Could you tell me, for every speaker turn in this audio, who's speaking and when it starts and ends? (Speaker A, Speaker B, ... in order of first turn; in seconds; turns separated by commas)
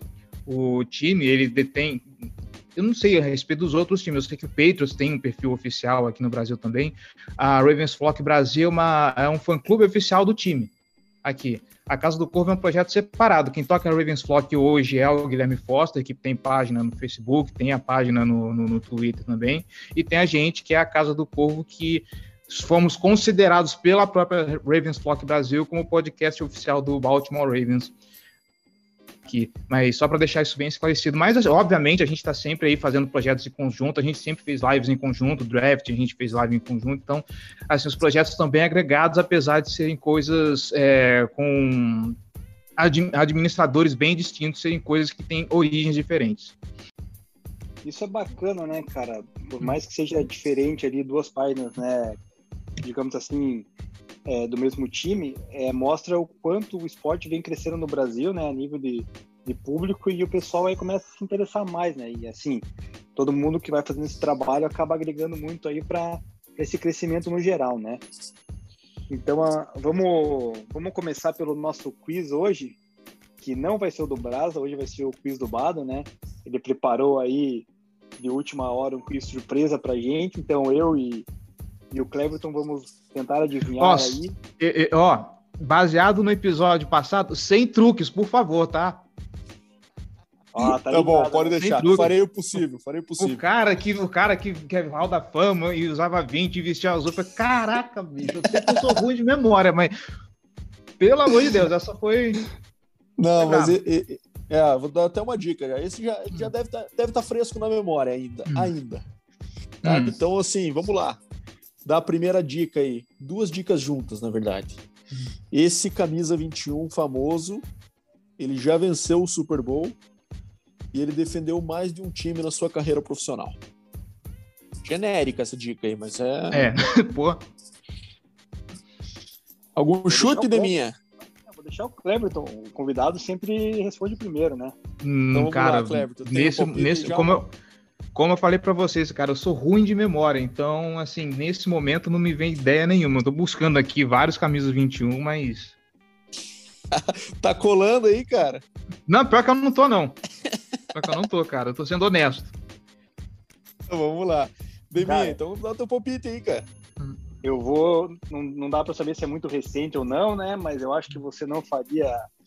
Speaker A: 0.5-2.1, Speaker A: 2.8-10.7, Speaker A: 11.2-27.9, Speaker A: 29.3-42.2, Speaker A: 42.8-46.5, Speaker B: 47.9-52.2, Speaker B: 52.8-53.7, Speaker B: 54.3-68.0, Speaker B: 69.1-72.8, Speaker B: 73.4-77.7, Speaker B: 78.2-81.3, Speaker B: 81.9-84.3, Speaker A: 83.8-89.0, Speaker B: 90.5-91.6, Speaker C: 90.6-93.4, Speaker A: 91.6-92.1, Speaker A: 93.2-99.9, Speaker C: 98.6-99.0, Speaker A: 101.0-102.5, Speaker C: 101.3-101.6, Speaker C: 103.2-109.0, Speaker A: 103.4-103.8, Speaker A: 109.8-110.1, Speaker C: 109.8-111.2, Speaker C: 111.8-114.8, Speaker C: 115.5-117.7, Speaker C: 118.4-120.0, Speaker C: 120.9-123.6, Speaker C: 124.8-126.7, Speaker A: 126.5-127.5, Speaker C: 129.8-131.0, Speaker B: 130.1-130.8, Speaker B: 131.5-134.7, Speaker A: 135.0-137.5, Speaker C: 135.3-137.4, Speaker A: 138.2-145.8, Speaker C: 146.9-148.6, Speaker A: 149.1-150.2, Speaker A: 150.9-152.5, Speaker C: 153.9-156.7, Speaker B: 155.0-155.4, Speaker B: 157.4-162.2